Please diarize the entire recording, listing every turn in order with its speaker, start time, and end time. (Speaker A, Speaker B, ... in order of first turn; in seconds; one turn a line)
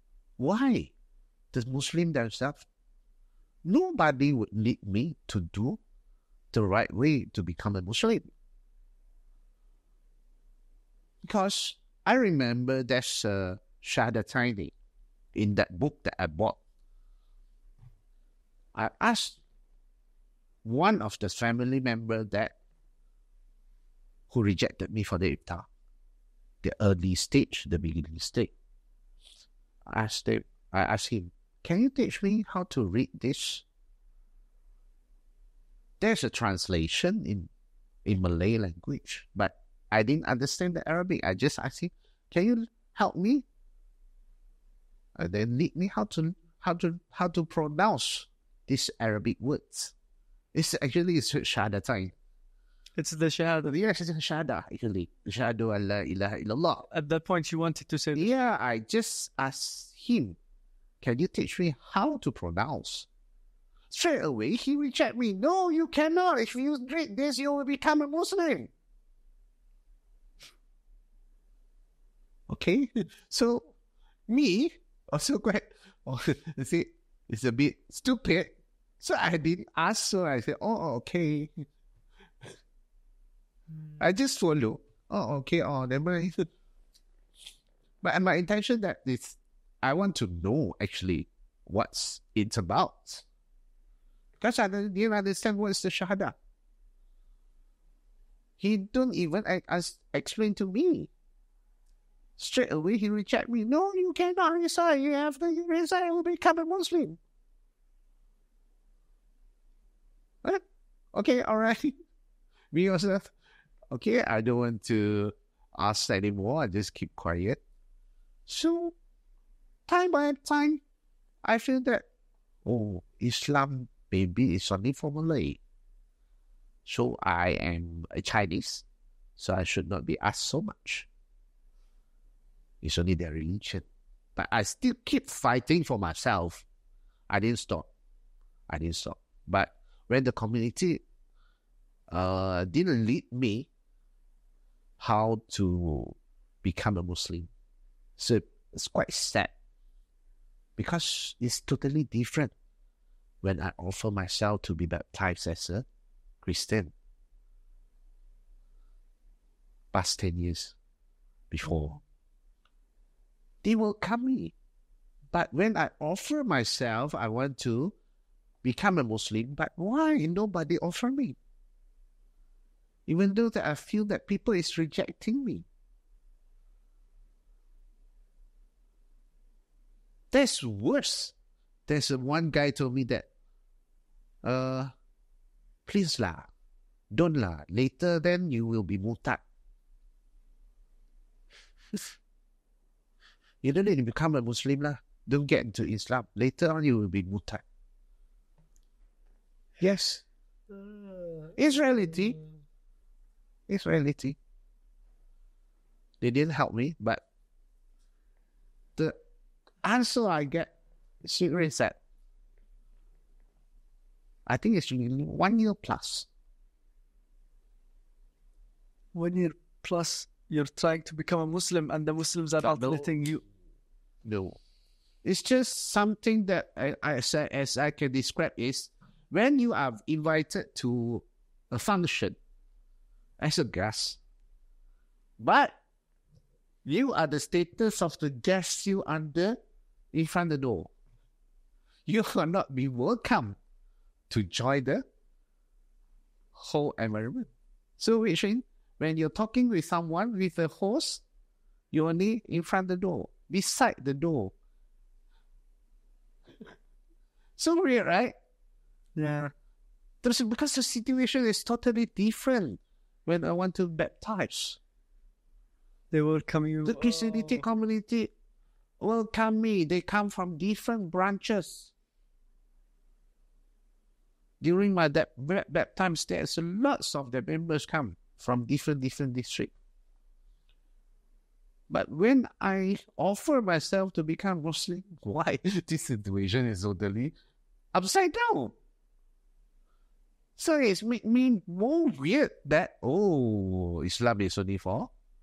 Speaker A: 0.4-0.9
Speaker A: 1.5-2.6
Speaker A: 3.6-5.8
Speaker A: 6.5-8.3
Speaker A: 11.2-14.7
Speaker A: 15.3-16.6
Speaker A: 18.7-19.4
Speaker A: 20.6-22.5
Speaker A: 24.3-25.7
Speaker A: 26.6-28.5
Speaker A: 29.9-33.6
Speaker A: 36.0-37.5
Speaker A: 38.0-43.4
Speaker A: 45.2-49.9
Speaker A: 50.5-52.1
Speaker B: 53.0-53.7
Speaker A: 53.6-56.9
Speaker B: 56.9-58.3
Speaker A: 58.1-60.4
Speaker A: 61.0-63.1
Speaker A: 63.9-68.7
Speaker A: 72.5-73.7
Speaker A: 74.3-81.5
Speaker A: 84.0-86.4
Speaker A: 88.0-93.2
Speaker A: 94.4-96.3
Speaker A: 98.6-101.1
Speaker A: 102.4-107.2
Speaker A: 111.1-111.9
Speaker A: 112.7-113.3
Speaker A: 113.9-117.6
Speaker A: 118.5-118.9
Speaker A: 119.9-120.8
Speaker A: 121.4-122.0
Speaker A: 122.6-125.6
Speaker A: 126.8-128.8
Speaker A: 129.4-131.1
Speaker A: 132.8-136.6
Speaker A: 137.3-137.9
Speaker A: 138.7-141.0
Speaker A: 142.1-143.7
Speaker A: 145.0-147.5
Speaker A: 148.2-149.5
Speaker A: 150.8-152.5
Speaker A: 153.4-155.8
Speaker A: 156.4-156.9
Speaker A: 159.9-160.8
Speaker A: 161.5-162.0
Speaker A: 163.6-164.5
Speaker A: 165.3-167.9
Speaker A: 168.6-171.4
Speaker A: 173.1-175.7
Speaker A: 180.3-181.3
Speaker A: 181.9-183.3
Speaker A: 184.4-184.9
Speaker A: 185.8-186.5
Speaker A: 187.1-189.4
Speaker A: 193.6-197.6
Speaker A: 199.8-200.2
Speaker A: 201.5-202.4
Speaker A: 203.7-204.4
Speaker A: 206.2-207.2
Speaker A: 209.8-210.7
Speaker A: 211.2-212.0
Speaker A: 214.4-216.3
Speaker B: 219.1-223.4
Speaker A: 222.6-223.1
Speaker A: 224.2-224.6
Speaker A: 225.2-232.4
Speaker A: 233.4-234.2
Speaker A: 235.4-235.8
Speaker A: 236.8-239.6
Speaker A: 240.1-240.9
Speaker A: 242.1-243.6
Speaker A: 244.3-245.0
Speaker A: 246.5-251.2
Speaker A: 251.9-254.5
Speaker A: 257.6-258.3
Speaker B: 259.1-259.5
Speaker A: 260.2-264.8
Speaker B: 266.1-267.6
Speaker A: 266.9-268.3
Speaker A: 269.0-271.9
Speaker A: 274.6-279.7
Speaker A: 281.9-287.3
Speaker A: 287.9-288.8
Speaker A: 290.6-295.1